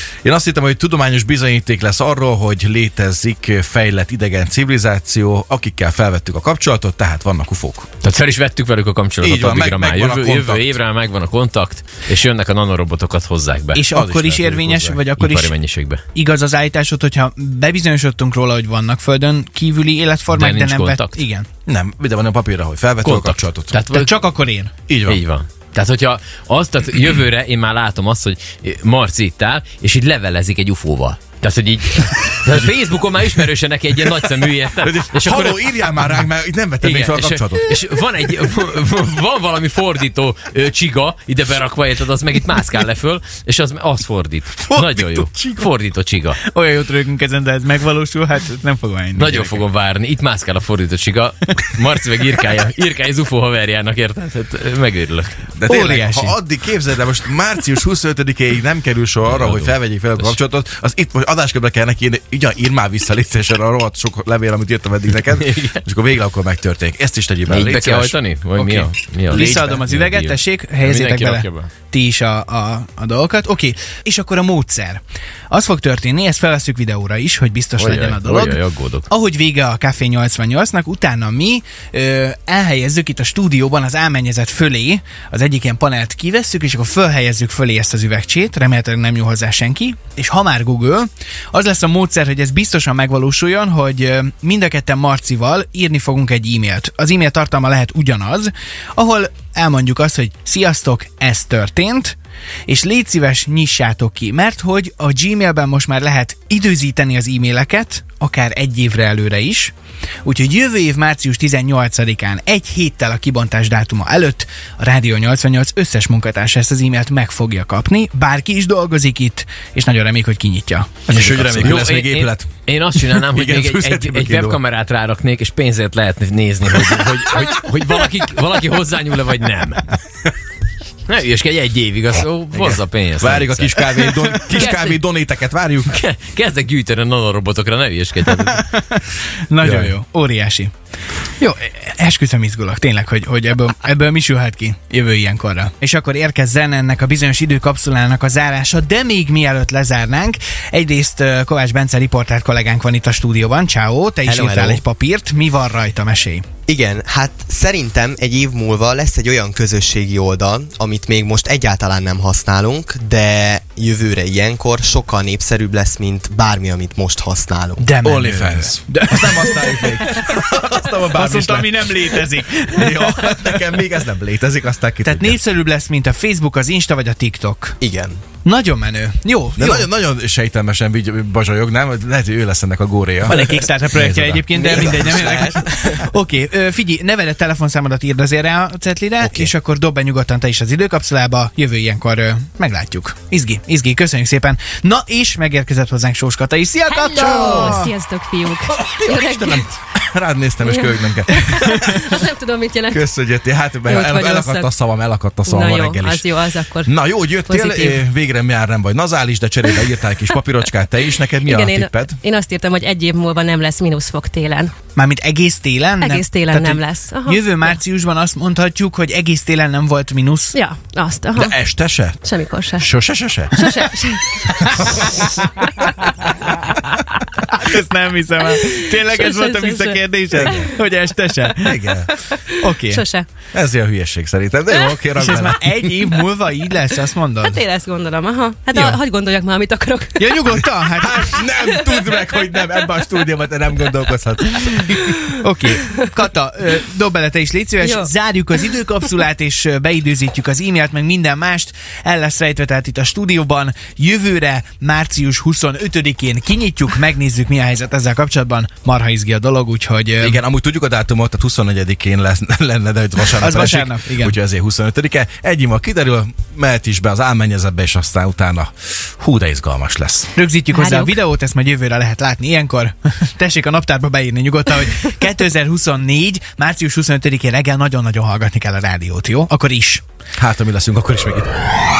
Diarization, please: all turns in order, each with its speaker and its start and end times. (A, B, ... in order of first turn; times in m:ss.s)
0:00.2-0:07.9 A
0:08.0-0:16.0 B
0:09.2-0:10.7 A
0:13.7-0:15.5 C
0:13.9-0:14.9 A
0:16.1-0:21.5 C
0:20.3-0:21.2 B
0:21.7-0:23.7 A
0:23.0-0:24.1 B
0:23.9-0:24.7 C
0:24.9-0:25.2 A
0:25.1-0:36.2 B
0:34.8-0:37.8 A
0:36.8-0:46.4 B
0:44.7-0:45.6 A
0:46.4-0:49.6 C
0:49.2-0:55.5 B
0:55.5-1:09.8 A
0:55.6-0:56.4 C
0:59.2-1:00.4 B
1:05.2-1:05.8 B
1:07.5-1:11.7 B
1:09.3-1:42.2 C
1:17.8-1:19.1 B
1:42.7-2:00.9 C
2:01.1-2:04.6 A
2:01.1-2:10.0 B
2:11.1-2:13.8 B
2:12.5-2:16.0 A
2:13.8-2:14.5 C
2:14.5-2:15.0 B
2:15.9-2:18.7 B
2:18.3-2:20.7 C
2:19.6-2:19.9 A
2:21.4-2:36.4 C
2:34.2-2:34.8 D
2:36.7-2:47.8 D
2:47.8-2:50.5 C
2:48.0-2:55.4 A
2:51.1-2:53.8 C
2:55.0-2:57.8 C
2:57.8-2:58.2 D
2:58.4-2:59.9 C
2:59.6-3:03.4 A
3:03.2-3:17.9 C
3:03.3-3:03.6 D
3:03.9-3:04.4 A
3:04.5-3:06.0 D
3:09.2-3:09.5 D
3:17.0-3:19.7 E
3:17.1-3:17.9 A
3:18.7-3:22.2 A
3:20.6-3:23.1 E
3:22.9-3:26.3 A
3:23.8-3:24.7 E
3:25.4-3:28.0 E
3:26.8-3:32.2 A
3:31.4-3:34.7 E
3:34.9-3:40.6 C
3:36.0-3:37.8 E
3:40.5-3:41.6 E
3:41.4-3:42.2 A
3:42.2-3:42.9 E
3:42.8-3:43.6 A
3:43.5-3:44.8 E
3:44.4-3:46.4 C
3:45.6-3:46.1 E
3:47.4-3:51.9 C
3:48.6-3:50.7 E
3:51.6-3:52.1 A
3:52.2-3:53.2 E
3:52.6-3:53.0 C
3:53.5-3:55.7 A
3:55.2-3:57.6 C
3:57.4-4:00.6 E
3:58.7-3:59.0 C
4:00.2-4:01.4 C
4:00.9-4:05.1 A
4:01.4-4:02.2 E
4:04.7-4:05.2 E
4:05.2-4:20.4 C
4:20.2-4:30.3 A
4:23.4-4:24.4 C
4:30.3-4:40.0 C
4:30.7-4:31.2 E
4:40.4-4:41.6 A